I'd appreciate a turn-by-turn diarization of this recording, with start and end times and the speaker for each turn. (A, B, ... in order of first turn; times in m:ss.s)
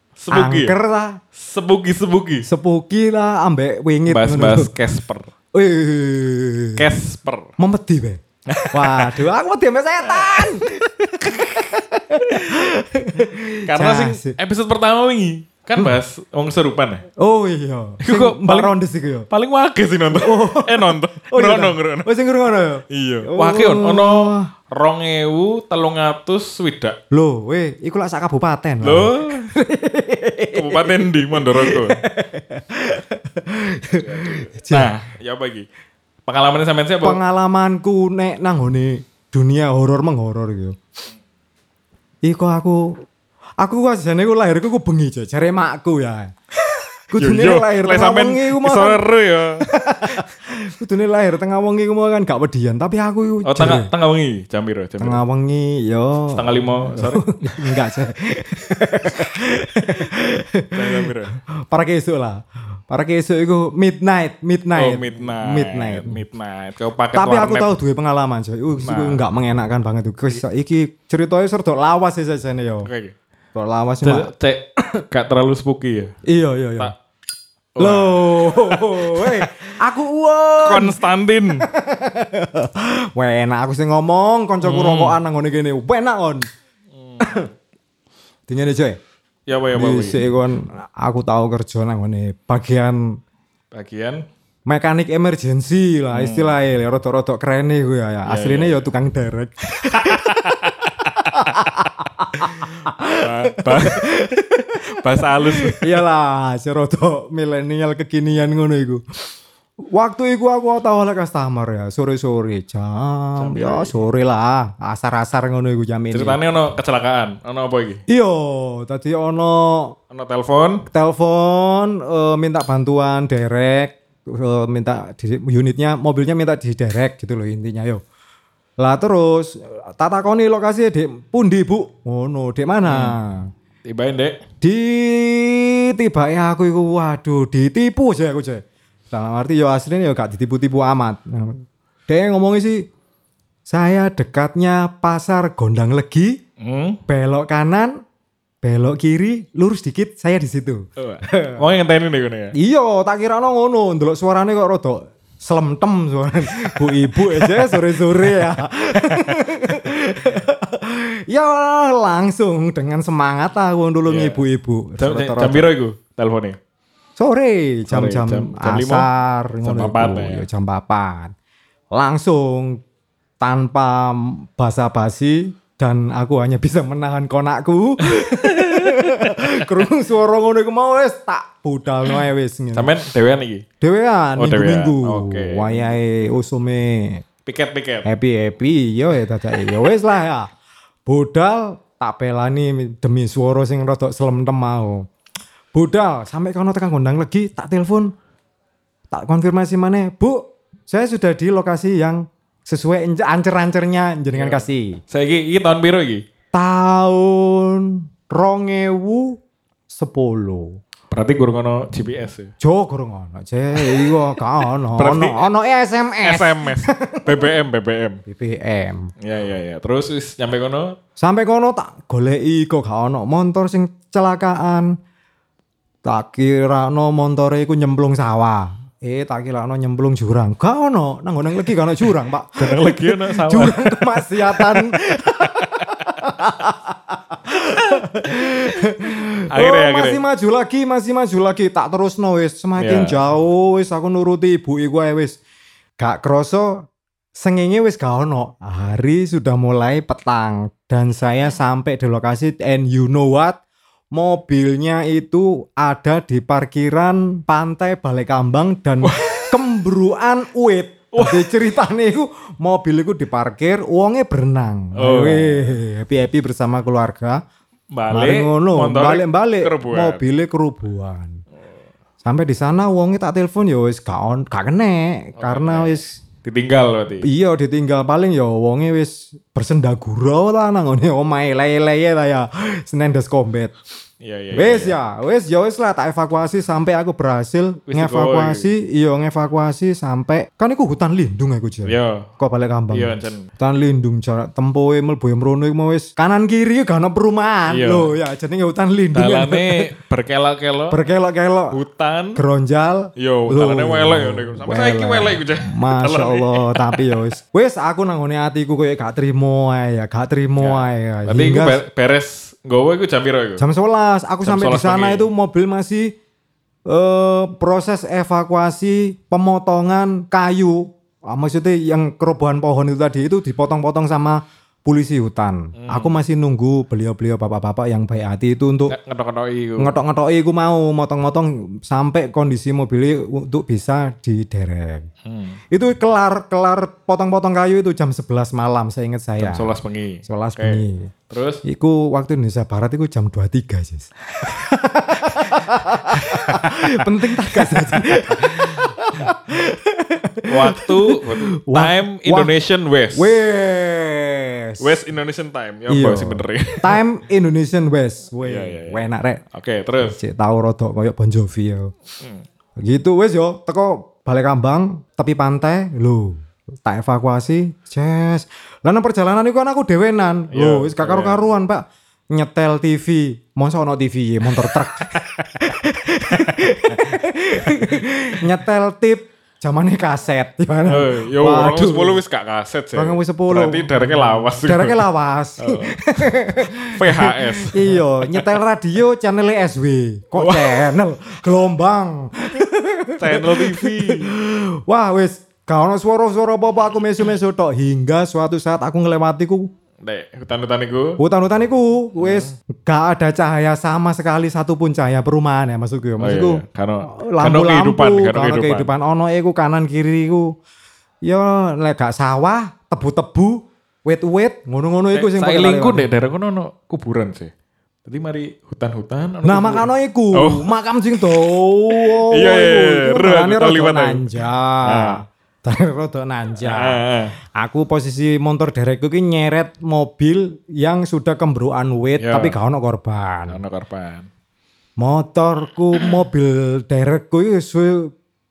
0:00.2-0:00.8 A
0:00.3-0:01.2 B
0:01.3-0:02.4 A
0:02.4-0:04.7 B
0:04.1-0:05.3 A
0:05.5-0:06.8 B
0:06.8-0:07.5 A
0:07.6-0:10.7 B
0:08.5-0:09.2 A
0:10.0-0:11.7 A
0:11.2-0:14.4 B
0:12.3-0:12.8 A
0:13.7-0:17.0 A
0:17.2-0:19.3 B
0:18.0-0:18.7 A
0:19.3-0:22.1 A
0:20.1-0:24.5 B
0:22.9-0:27.0 A
0:27.1-0:34.9 B
0:28.8-0:29.5 A
0:30.5-0:32.0 A
0:33.9-0:35.6 A
0:36.2-0:37.2 A
0:37.0-0:40.8 B
0:42.2-0:43.0 B
0:43.6-0:46.3 B
0:46.6-0:50.2 A
0:47.1-0:49.0 B
0:49.6-0:53.9 B
0:53.4-0:55.2 A
0:55.0-1:06.2 B
0:56.3-0:57.7 A
1:00.7-1:01.3 A
1:04.7-1:07.7 A
1:07.1-1:12.9 B
1:08.8-1:09.2 A
1:12.8-1:13.2 A
1:13.5-1:14.3 B
1:14.0-1:16.1 A
1:16.2-1:16.9 B
1:17.8-1:19.6 A
1:17.8-1:21.0 B
1:20.6-1:21.7 A
1:21.6-1:26.4 B
1:24.6-1:25.2 A
1:26.9-1:27.4 A
1:27.2-1:27.5 B
1:28.5-1:29.0 B
1:29.5-1:30.2 A
1:29.7-1:33.0 B
1:33.7-1:34.2 A
1:34.7-1:44.8 B
1:36.1-1:36.5 A
1:38.3-1:38.8 A
1:39.9-1:41.8 A
1:42.4-1:44.1 A
1:44.9-1:46.0 A
1:45.4-1:49.0 B
1:49.9-1:56.4 B
1:53.4-1:54.0 A
1:56.1-1:58.0 A
1:58.1-2:00.0 B
2:00.1-2:00.8 A
2:00.9-2:08.0 B
2:08.8-2:13.5 B
2:12.8-2:13.2 A
2:13.8-2:14.4 A
2:14.6-2:22.9 B
2:23.7-2:26.4 B
2:26.6-2:27.0 A
2:27.1-2:27.9 B
2:28.6-2:31.6 B
2:31.0-2:32.5 A
2:32.6-2:45.7 B
2:37.2-2:39.9 A
2:44.0-2:44.4 A
2:45.0-2:46.6 A
2:47.2-2:51.3 B
2:47.9-2:49.1 A
2:49.6-2:50.4 A
2:51.9-2:52.8 B
2:53.4-3:02.9 B
2:58.1-2:59.8 A
3:02.7-3:03.6 A
3:03.8-3:07.2 B
3:04.4-3:06.0 A
3:07.4-3:08.0 A
3:08.0-3:10.5 B
3:11.0-3:15.0 B
3:15.7-3:18.1 B
3:19.1-3:25.0 B
3:24.3-3:26.2 A
3:26.5-3:29.4 B
3:29.9-3:30.8 B
3:31.1-3:32.5 A
3:32.6-3:37.4 B
3:33.8-3:34.4 A
3:34.9-3:35.5 A
3:36.2-3:38.2 A
3:38.2-3:39.1 B
3:39.2-3:41.0 A
3:41.2-3:44.9 B
3:46.0-4:05.4 B
3:52.6-3:56.0 A
3:59.5-4:00.2 A
4:02.8-4:03.1 A
4:06.0-4:13.6 B
4:14.1-4:27.4 B
4:19.0-4:19.6 A
4:21.1-4:21.6 A
4:24.9-4:25.8 A
4:27.9-4:30.2 A
4:28.1-4:31.4 B
4:32.2-4:36.1 B
4:35.4-4:37.3 A
4:37.2-4:43.7 B
4:44.2-4:45.0 A
4:44.5-4:59.9 B
4:47.9-4:48.7 A
4:51.8-4:52.3 A
4:52.9-4:53.5 A
4:57.7-4:58.1 A
4:59.1-5:01.0 A
5:00.9-5:01.8 B
5:01.7-5:02.4 A
5:02.4-5:11.8 B
5:03.2-5:07.3 A
5:10.6-5:13.6 A
5:13.6-5:16.1 B
5:14.4-5:15.3 A
5:16.9-5:28.9 B
5:25.8-5:26.2 A
5:28.9-5:29.9 A
5:29.8-5:35.1 B
5:35.2-5:35.6 A
5:35.7-5:39.7 B
5:39.4-5:41.6 A
5:40.2-5:41.1 B
5:41.6-5:52.5 B
5:45.3-5:48.9 A
5:50.4-5:53.4 A
5:53.1-5:55.0 B
5:54.8-5:57.0 A
5:55.9-5:59.4 B
5:58.4-6:00.2 A
6:00.0-6:01.9 B
6:02.8-6:22.2 B
6:10.5-6:11.5 A
6:15.4-6:15.7 A
6:16.3-6:18.0 A
6:20.9-6:25.0 A
6:22.9-6:39.7 B
6:25.6-6:28.5 A
6:30.3-6:30.9 A
6:33.2-6:34.3 A
6:40.0-6:41.2 A
6:41.2-6:50.5 B
6:42.2-6:42.5 A
6:46.2-6:48.9 A
6:51.2-6:56.1 B
6:55.1-6:57.5 A
6:58.0-7:05.2 A
6:59.4-7:07.0 B
7:06.6-7:07.3 A
7:07.6-7:13.6 B
7:12.2-7:12.5 A
7:13.5-7:14.3 A
7:15.0-7:18.1 B